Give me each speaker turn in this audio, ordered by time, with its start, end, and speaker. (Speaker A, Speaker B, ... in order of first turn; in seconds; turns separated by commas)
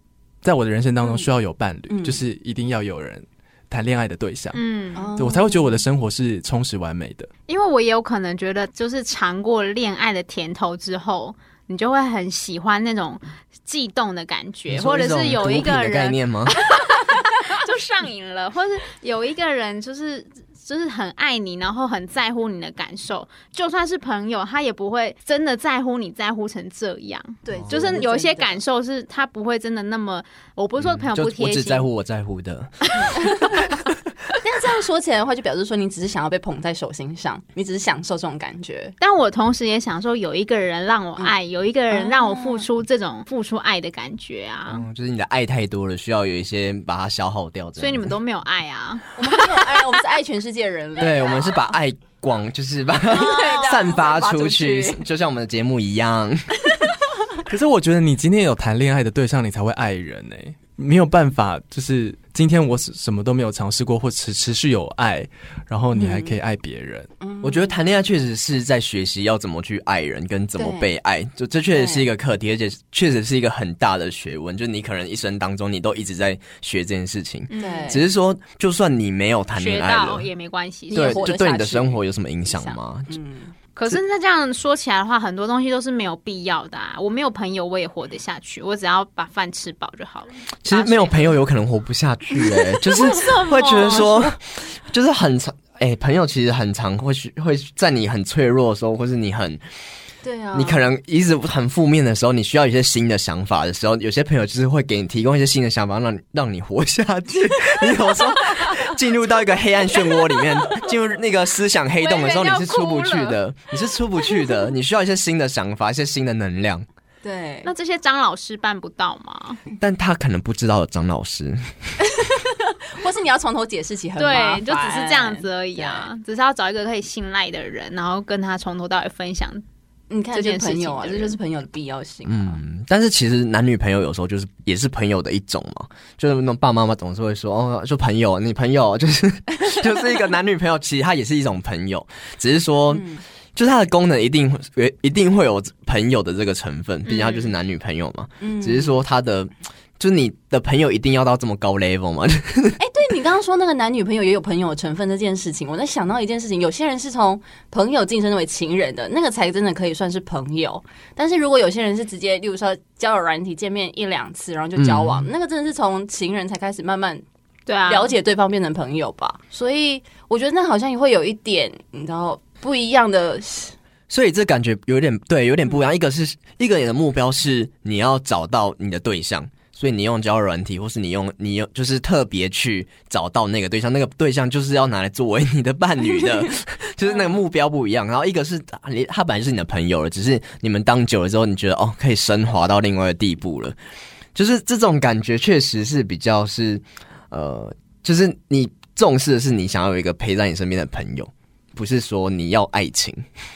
Speaker A: 0.4-4.6, Speaker B: 1.9-2.2, Speaker C: 4.5-5.2, Speaker B: 5.0-5.8, Speaker A: 5.2-7.3, Speaker C: 7.5-31.9, Speaker D: 14.7-16.6, Speaker B: 27.4-28.6, Speaker D: 27.6-28.0, Speaker D: 30.8-32.9, Speaker B: 33.1-33.6, Speaker B: 34.4-39.0, Speaker C: 39.0-44.9, Speaker B: 41.9-42.7, Speaker D: 44.7-48.1, Speaker C: 47.8-49.8, Speaker B: 49.2-51.6, Speaker D: 51.0-56.8, Speaker B: 53.1-55.0, Speaker C: 53.1-54.0, Speaker A: 57.5-67.1, Speaker B: 65.9-66.4, Speaker B: 67.2-67.7, Speaker D: 67.4-80.3, Speaker B: 70.6-70.9, Speaker B: 71.7-72.1, Speaker C: 77.5-78.0, Speaker B: 77.6-78.0, Speaker C: 79.5-81.3, Speaker B: 80.9-83.5, Speaker D: 80.9-83.1, Speaker C: 83.8-91.4, Speaker D: 90.6-99.6, Speaker C: 92.5-94.3, Speaker B: 100.2-100.8, Speaker D: 100.5-116.9, Speaker C: 112.0-113.4, Speaker B: 117.2-117.7, Speaker C: 117.7-119.6, Speaker D: 119.8-121.7, Speaker B: 122.0-126.1, Speaker C: 124.2-129.6, Speaker B: 130.1-132.6, Speaker C: 130.3-131.4, Speaker D: 132.3-152.8, Speaker B: 142.9-143.2, Speaker C: 147.1-147.5, Speaker B: 148.4-148.9, Speaker B: 152.8-167.2, Speaker D: 164.8-165.3, Speaker C: 167.7-168.1, Speaker B: 167.9-173.8, Speaker D: 174.1-193.8, Speaker B: 186.2-186.5, Speaker D: 194.3-203.3